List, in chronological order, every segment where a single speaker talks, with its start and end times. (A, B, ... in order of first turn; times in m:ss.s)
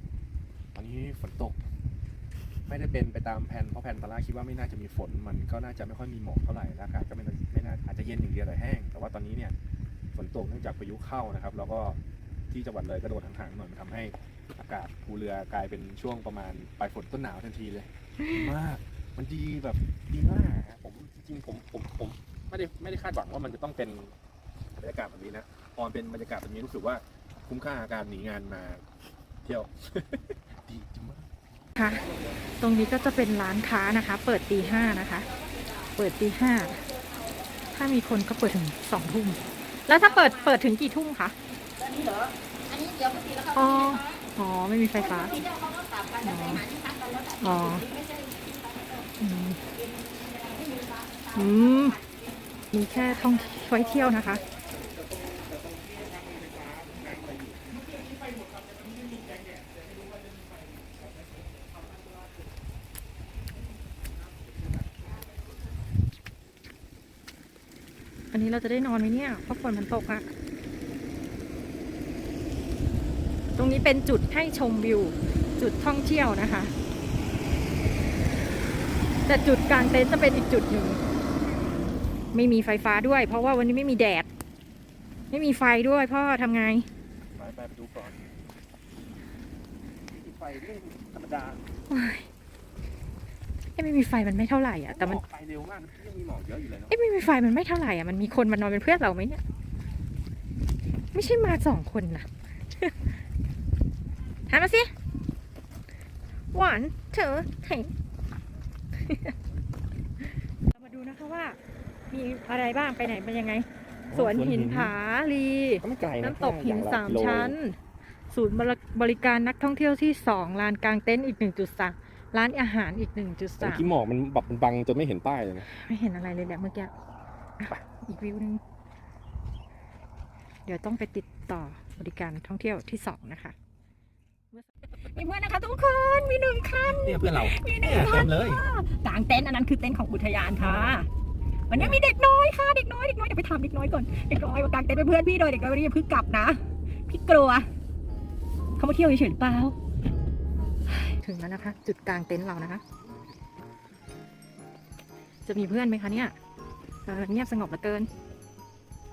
0:00.8-0:01.6 A
0:02.7-0:09.6 A
0:10.1-0:12.0 A
0:12.5-0:24.2 A
0:24.8-0:28.8 A
0:29.4-0:31.3 A
0:31.8-0:32.1 B
0:32.6-0:35.3 B
0:36.0-0:36.9 B
0:37.6-0:41.4 B
0:41.8-0:43.5 C
0:43.5-0:45.5 B
0:45.5-0:49.0 C
0:46.2-0:46.7 B
0:47.4-0:47.9 B
0:49.2-0:49.6 B
0:49.8-0:51.3 C
0:51.3-0:52.0 B
0:52.7-0:54.4 B
0:54.8-1:00.6 A
1:01.9-1:02.3 A
1:08.3-1:10.3 B
1:13.6-1:16.7 B
1:19.3-1:21.0 B
1:22.3-1:24.3 B
1:25.3-1:26.9 B
1:27.4-1:28.3 A
1:30.1-1:31.6 A
1:31.9-1:32.3 B
1:33.8-1:35.2 B
1:34.9-1:37.0 A
1:36.9-1:39.4 B
1:41.1-1:43.2 B
1:44.5-1:44.9 B
1:46.5-1:47.9 B
1:49.0-1:49.4 B
1:50.2-1:51.6 B
1:52.1-1:57.8 B
1:54.1-1:55.0 A
1:55.8-1:57.6 A
1:58.3-2:03.9 B
2:03.6-2:05.7 A
2:05.6-2:06.9 B
2:07.6-2:08.6 B
2:10.7-2:13.6 B
2:14.5-2:21.1 B
2:16.9-2:18.6 A
2:21.7-2:27.7 B
2:28.8-2:29.8 B
2:30.9-2:32.8 B
2:35.5-2:36.4 B
2:37.0-2:38.1 B